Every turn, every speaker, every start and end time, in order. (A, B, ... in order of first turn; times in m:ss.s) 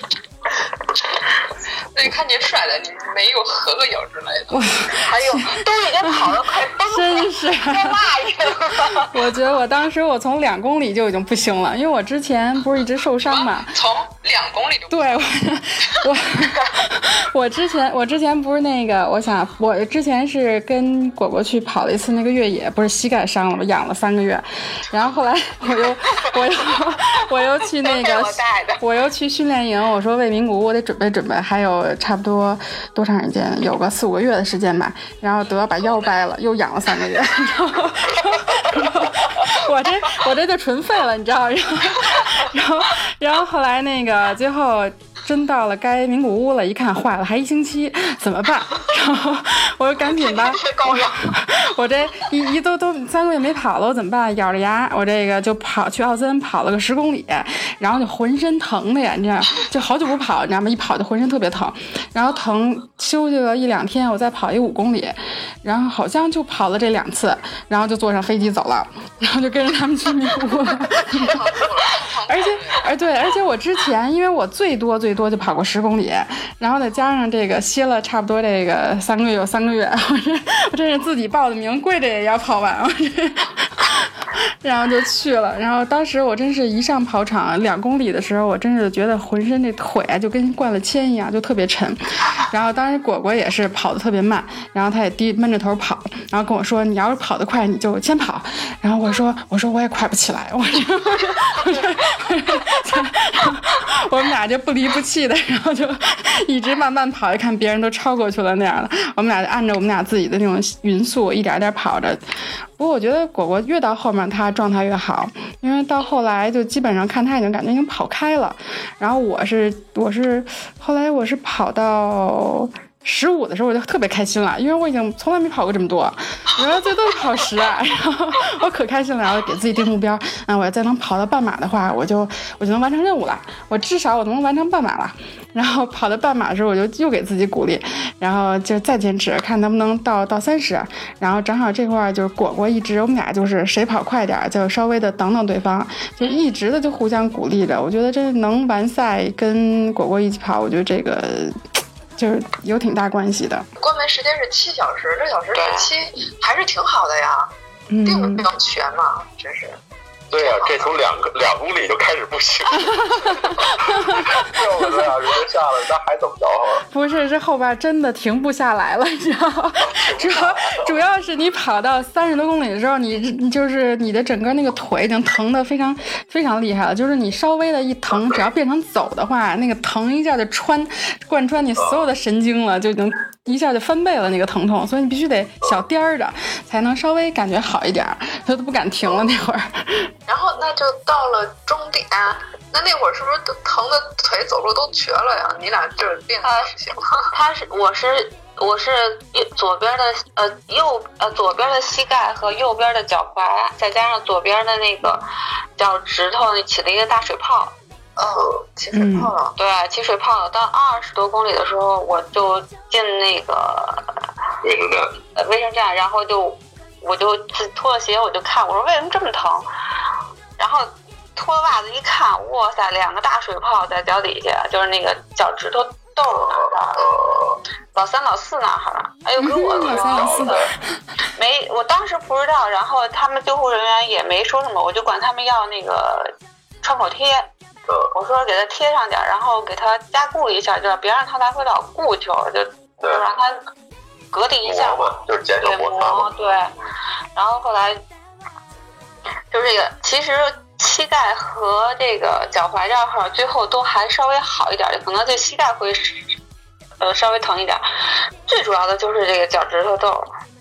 0:01.9-0:04.7 A
0:04.5-0:13.7 B
0:04.9-0:09.1 C
0:13.2-0:15.2 A
0:14.9-1:11.6 B
0:27.8-0:28.8 C
0:50.6-0:51.1 C
1:11.0-1:13.0 A
1:12.3-1:52.2 B
1:52.8-2:31.6 B
2:32.2-2:33.7 B
2:33.8-2:37.5 A
2:35.6-2:35.9 C
2:37.9-2:38.5 B
2:38.0-2:39.8 A
2:40.3-2:46.8 D
2:40.4-2:40.9 A
2:43.0-2:45.1 B
2:46.9-3:10.1 B
2:49.8-2:51.0 D
3:01.8-3:02.0 D
3:10.3-3:17.3 A
3:16.4-3:16.7 C
3:17.3-3:25.2 C
3:25.8-3:27.8 C
3:28.2-3:29.6 A
3:28.9-3:29.3 B
3:29.6-3:34.2 C
3:34.6-3:35.2 D
3:35.4-3:39.7 C
3:40.6-3:47.1 C
3:46.4-3:47.6 D
3:47.9-3:50.6 C
3:49.4-3:50.8 B
3:49.8-3:50.7 D
3:51.4-3:57.5 C
3:58.1-4:03.6 C
4:04.3-4:06.7 C
4:04.6-4:06.3 D
4:07.4-4:08.0 C
4:09.5-4:16.3 C
4:17.0-4:17.8 C
4:18.5-4:20.3 C